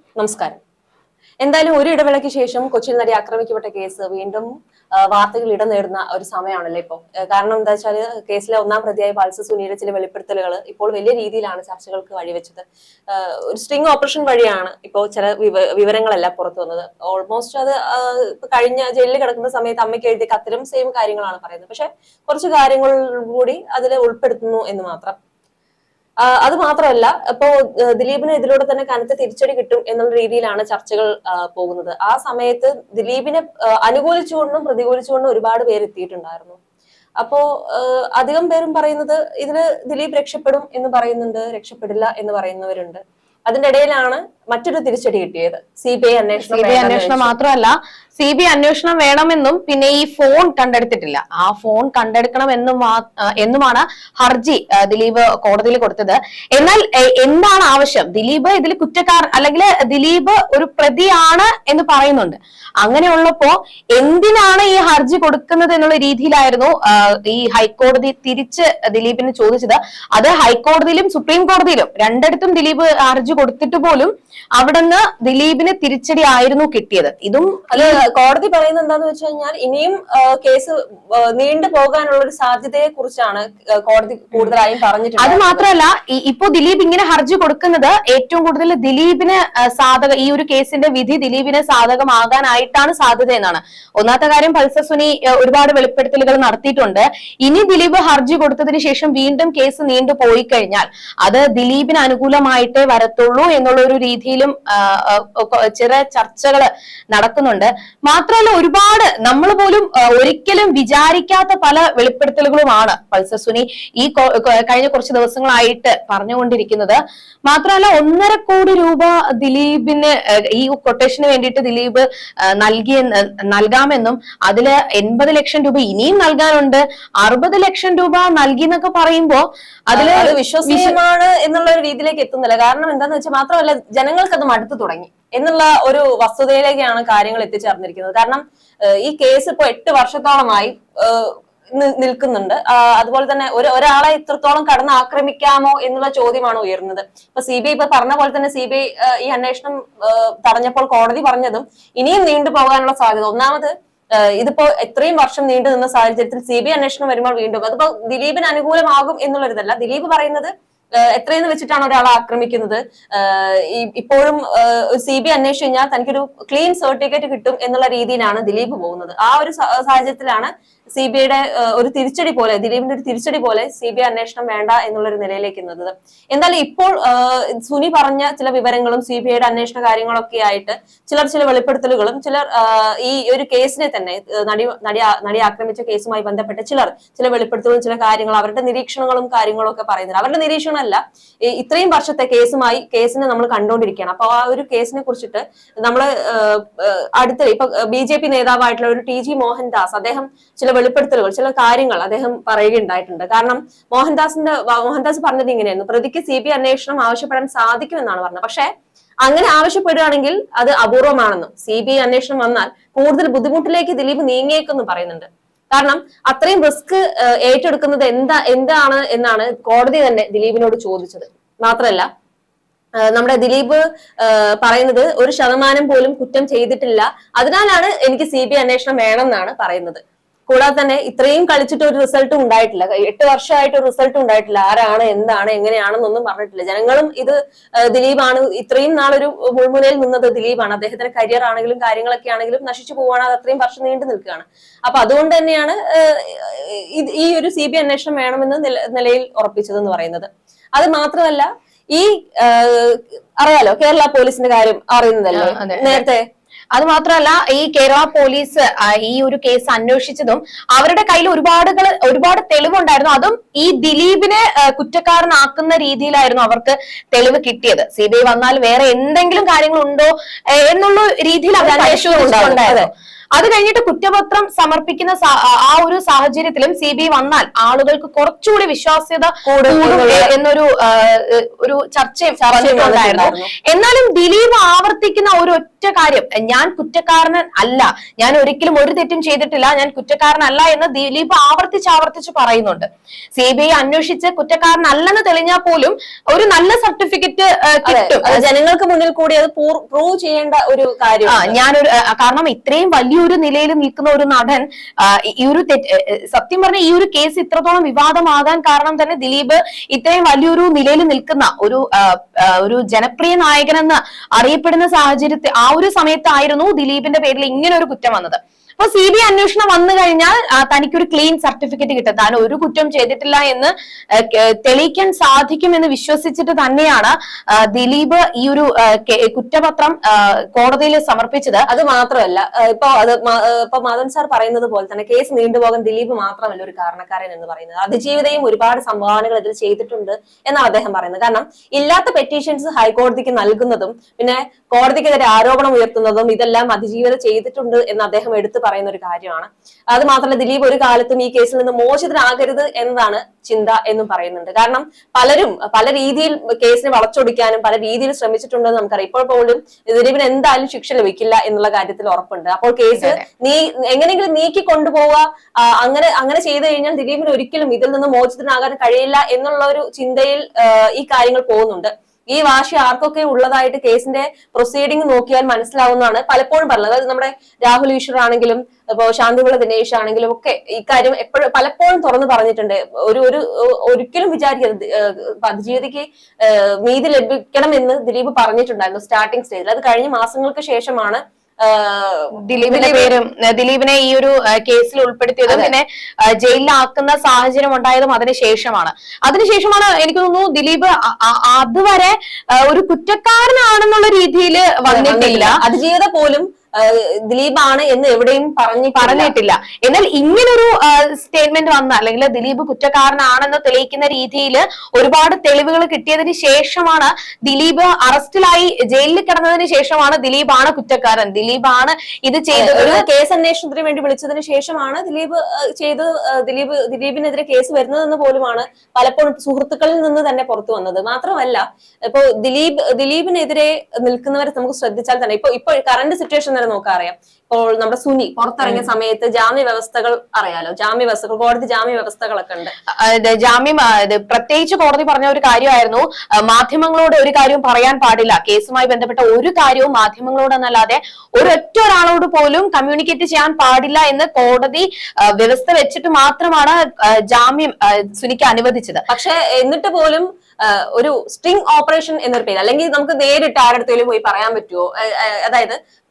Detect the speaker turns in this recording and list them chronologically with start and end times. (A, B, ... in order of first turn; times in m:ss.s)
0:00.2-0:00.6 A
0:01.4-0:25.2 A
0:26.2-0:36.6 A
0:37.2-0:47.3 A
0:46.4-1:18.0 B
1:17.7-1:25.6 A
1:25.2-2:02.0 B
2:02.6-2:11.0 B
2:09.9-3:28.7 A
3:29.2-3:42.1 A
3:43.0-4:16.2 A
4:15.3-4:16.0 B
4:16.7-4:58.4 B
4:31.6-4:32.9 A
4:39.4-4:40.3 A
4:42.4-4:43.5 A
4:57.8-5:01.6 A
5:01.3-5:31.7 B
5:31.7-6:33.1 A
6:02.9-6:03.2 B
6:32.5-6:35.8 B
6:35.5-6:35.7 A
6:36.4-6:45.6 B
6:44.9-6:49.3 A
6:48.9-7:03.0 B
7:02.5-7:22.7 A
7:23.0-7:36.8 B
7:37.3-7:39.0 B
7:39.1-7:45.8 A